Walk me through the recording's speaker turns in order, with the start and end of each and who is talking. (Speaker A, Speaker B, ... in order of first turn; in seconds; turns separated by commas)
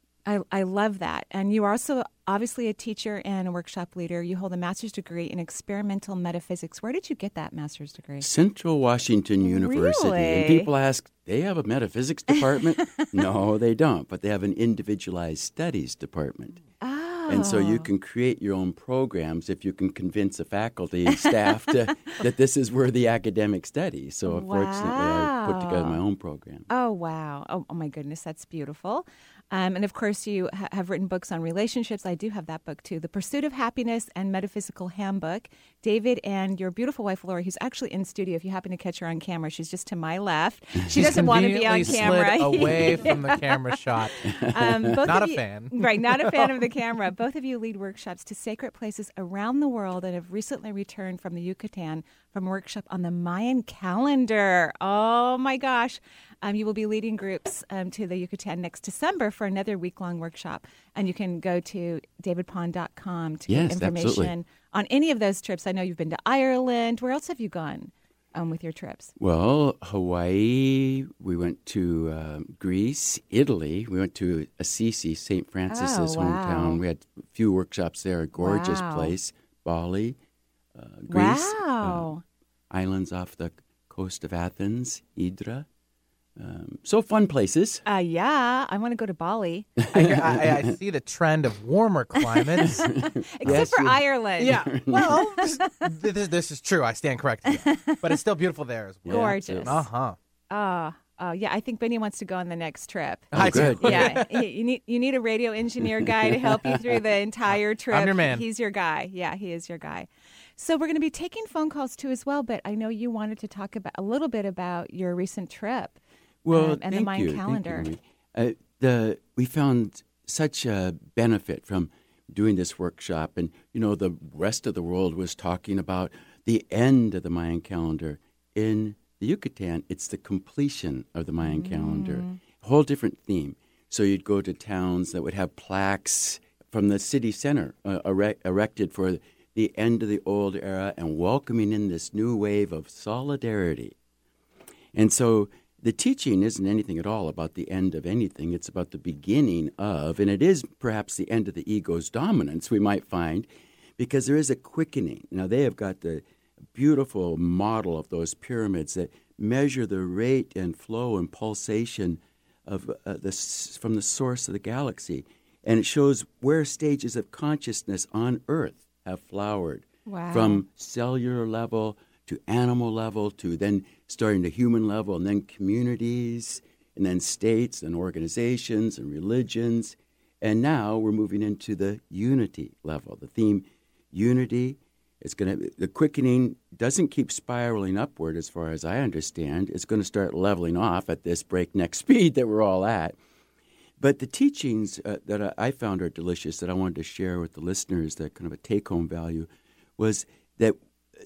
Speaker A: 0.2-8.3, Speaker B: 8.2-16.6, Speaker A: 9.4-10.7, Speaker A: 12.6-13.0, Speaker A: 16.8-17.9, Speaker B: 17.3-26.7, Speaker A: 21.1-21.7, Speaker A: 24.2-26.0, Speaker A: 26.7-43.8, Speaker B: 40.8-41.2, Speaker C: 40.9-44.2, Speaker B: 44.2-45.1, Speaker A: 44.5-69.1, Speaker C: 45.0-46.7, Speaker B: 63.5-64.3, Speaker B: 69.2-80.2, Speaker A: 75.7-76.8, Speaker A: 78.4-79.1, Speaker B: 80.7-82.1, Speaker A: 81.1-82.2, Speaker B: 82.7-85.7, Speaker B: 86.4-87.8, Speaker A: 87.8-89.7, Speaker B: 89.8-90.7, Speaker C: 89.9-92.8, Speaker A: 92.6-92.9, Speaker B: 92.6-95.2, Speaker A: 93.4-95.4, Speaker C: 94.4-100.2, Speaker A: 97.6-98.0, Speaker B: 99.0-99.8, Speaker A: 99.1-99.8, Speaker A: 100.5-116.0, Speaker B: 103.3-104.2, Speaker C: 103.3-104.4, Speaker B: 105.9-106.8, Speaker C: 107.9-108.4, Speaker B: 116.4-143.9, Speaker A: 116.5-117.9, Speaker A: 131.4-132.4, Speaker B: 144.9-193.2, Speaker A: 170.1-170.6, Speaker B: 194.0-200.8